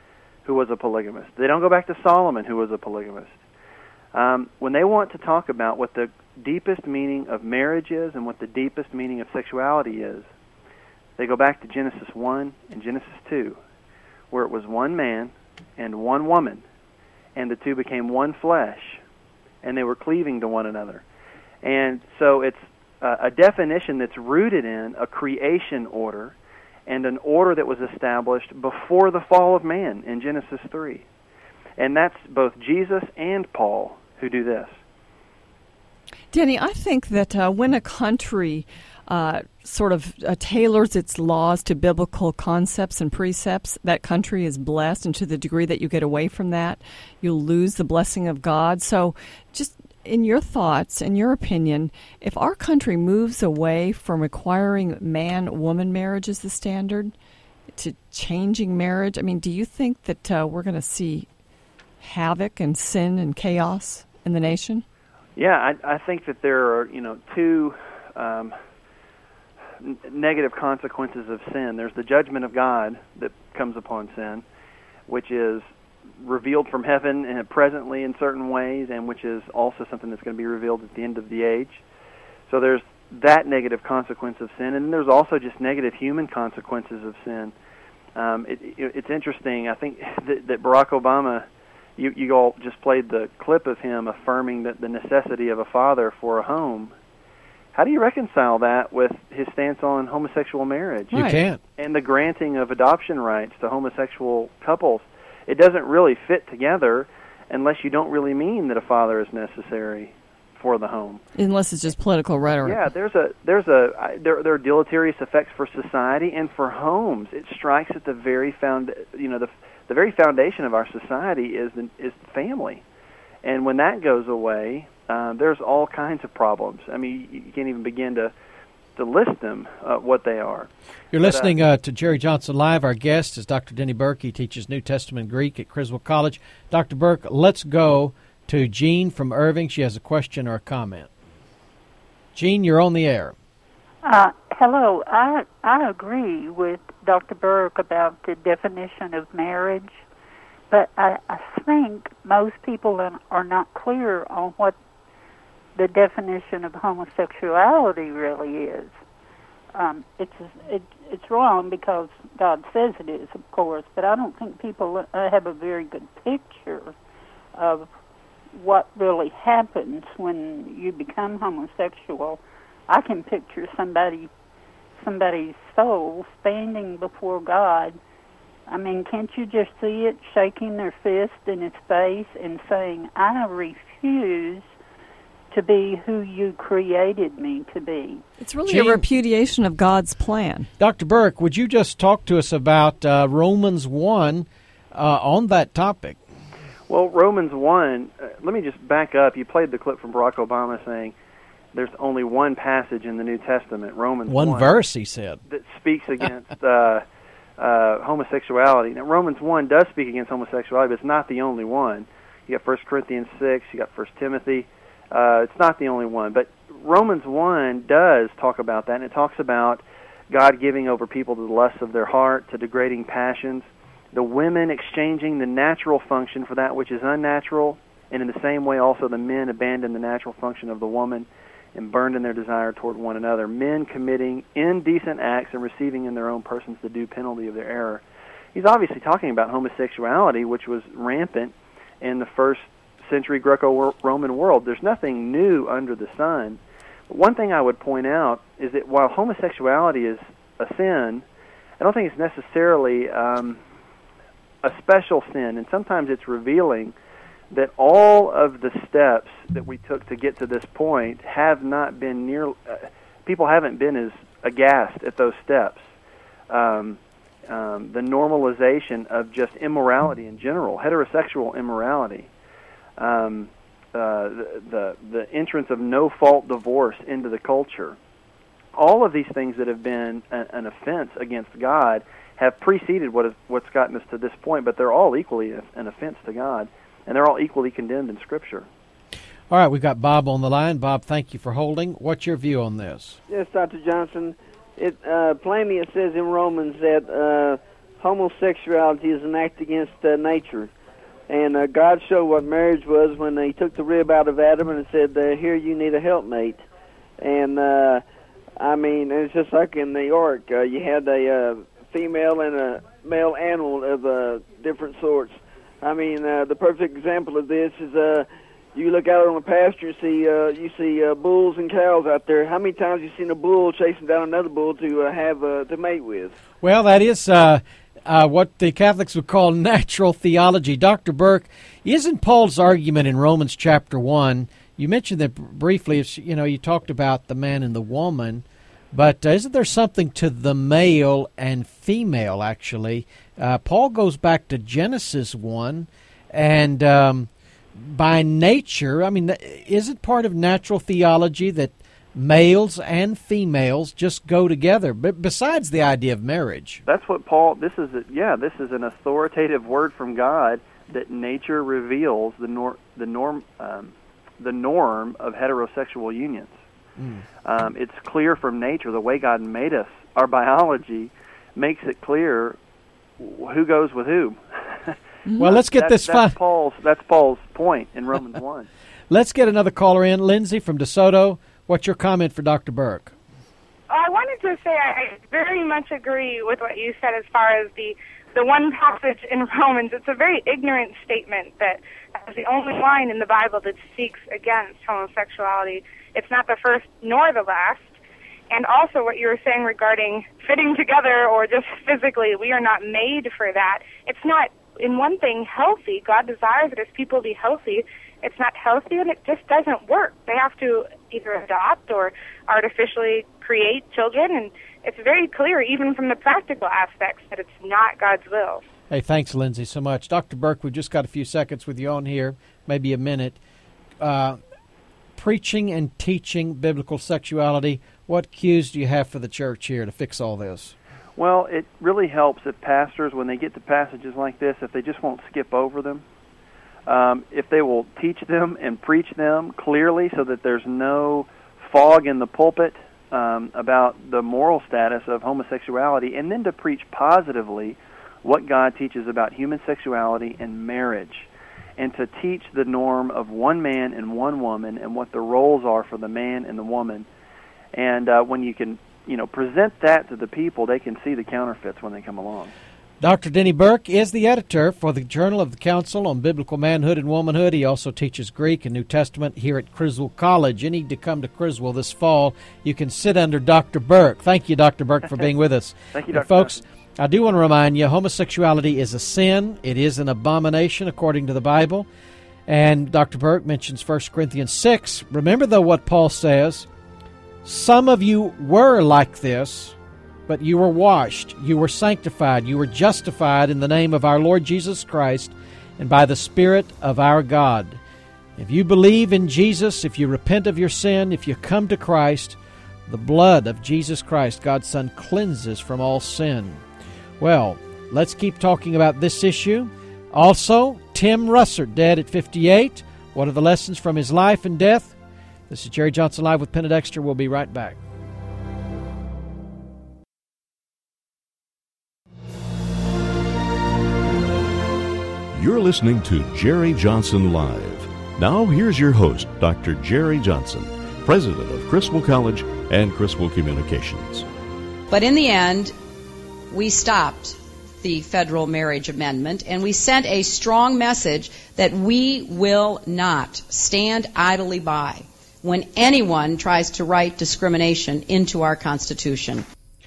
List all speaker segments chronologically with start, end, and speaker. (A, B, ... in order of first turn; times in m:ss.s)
0:00.4-0:03.4 A
0:04.1-0:10.3 A
0:11.2-0:13.6 A
0:14.3-0:16.6 A
0:17.3-0:19.0 A
0:19.6-0:21.0 A
0:21.6-0:26.4 A
0:26.9-0:31.0 A
0:31.8-0:34.8 A
0:36.3-0:57.1 B
0:57.8-1:01.3 B
1:02.0-1:04.8 B
1:05.4-1:08.6 A
1:09.8-1:14.4 A
1:15.1-1:21.8 A
1:22.5-1:27.5 A
1:28.2-1:36.9 A
1:37.7-1:41.1 A
1:41.1-1:41.4 B
1:41.1-1:41.6 C
1:41.8-1:51.2 A
1:51.4-1:52.8 B
1:52.6-2:02.8 A
2:03.4-2:08.3 A
2:09.0-2:11.6 A
2:11.1-2:21.1 C
2:22.3-2:23.3 C
2:24.0-2:30.0 D
2:30.7-2:34.8 D
2:35.8-2:39.0 D
2:39.7-2:47.0 D
2:47.5-2:47.9 D
2:48.5-2:54.3 D
2:55.0-2:58.0 D
2:58.7-3:04.7 D
3:05.5-3:08.2 D
3:08.4-3:10.7 B
3:08.7-3:09.0 C
3:10.8-3:16.2 C
3:16.9-3:21.1 A
3:21.7-3:24.7 A
3:24.3-3:25.4 C
3:25.5-3:27.0 A
3:27.6-4:11.2 A
4:11.8-4:13.6 A
4:14.6-4:16.9 A
4:17.5-4:25.9 A
4:26.5-4:32.3 A
4:33.0-4:38.0 A
4:38.7-4:48.7 A
4:49.5-4:53.2 C
4:53.3-5:00.7 E
5:01.3-5:06.6 E
5:07.2-5:08.0 E
5:08.6-5:26.3 E
5:26.6-5:56.8 C
5:56.8-6:06.6 A
6:07.0-6:07.2 C
6:07.4-6:12.6 A
6:13.2-6:18.7 A
6:15.4-6:16.4 C
6:19.1-6:23.1 C
6:23.9-6:38.0 F
6:38.5-6:58.6 F
6:58.9-7:03.4 C
7:04.0-7:04.4 C
7:05.2-7:10.7 C
7:11.2-7:16.0 A
7:16.8-7:37.1 A
7:37.7-7:42.5 A
7:43.0-8:01.9 C
7:55.9-7:56.6 A
8:02.5-8:06.7 C
8:07.4-8:09.8 C
8:10.3-8:17.8 C
8:18.4-8:26.6 C
8:27.2-8:35.0 C
8:35.5-8:37.8 C
8:45.3-8:54.2 G
8:54.9-8:55.7 H
8:56.5-9:09.4 H